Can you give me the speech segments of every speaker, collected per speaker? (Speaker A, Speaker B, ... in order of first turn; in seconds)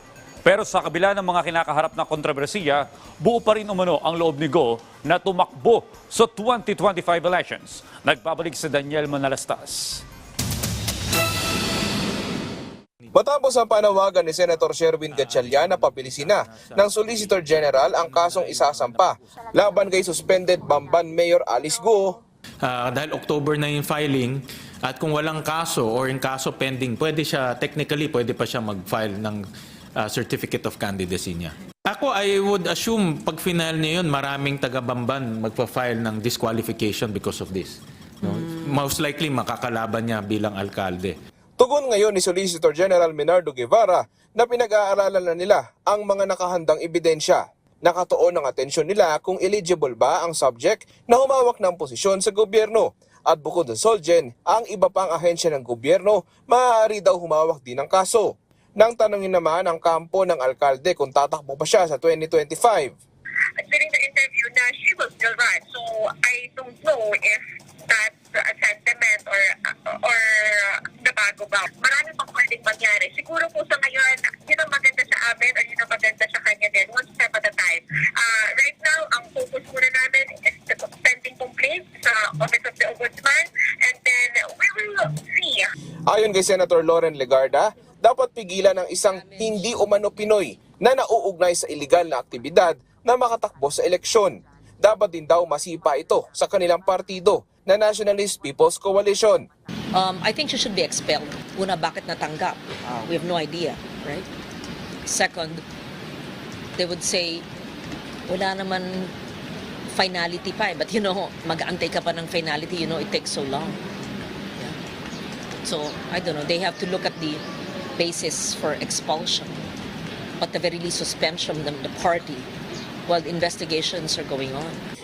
Speaker A: 0.4-10.0
Speaker B: 13.1-22.2, 41.6-62.9, 86.1-99.4
Speaker C: 15.1-19.1, 22.6-29.4, 30.0-41.1
Speaker D: 63.6-69.5, 70.0-85.7
Speaker E: 89.1-89.6, 99.9-104.3, 105.0-105.6, 106.8-107.4, 108.3-109.1, 109.9-113.8, 115.6-117.4, 118.0-119.6, 120.4-122.5, 123.1-124.8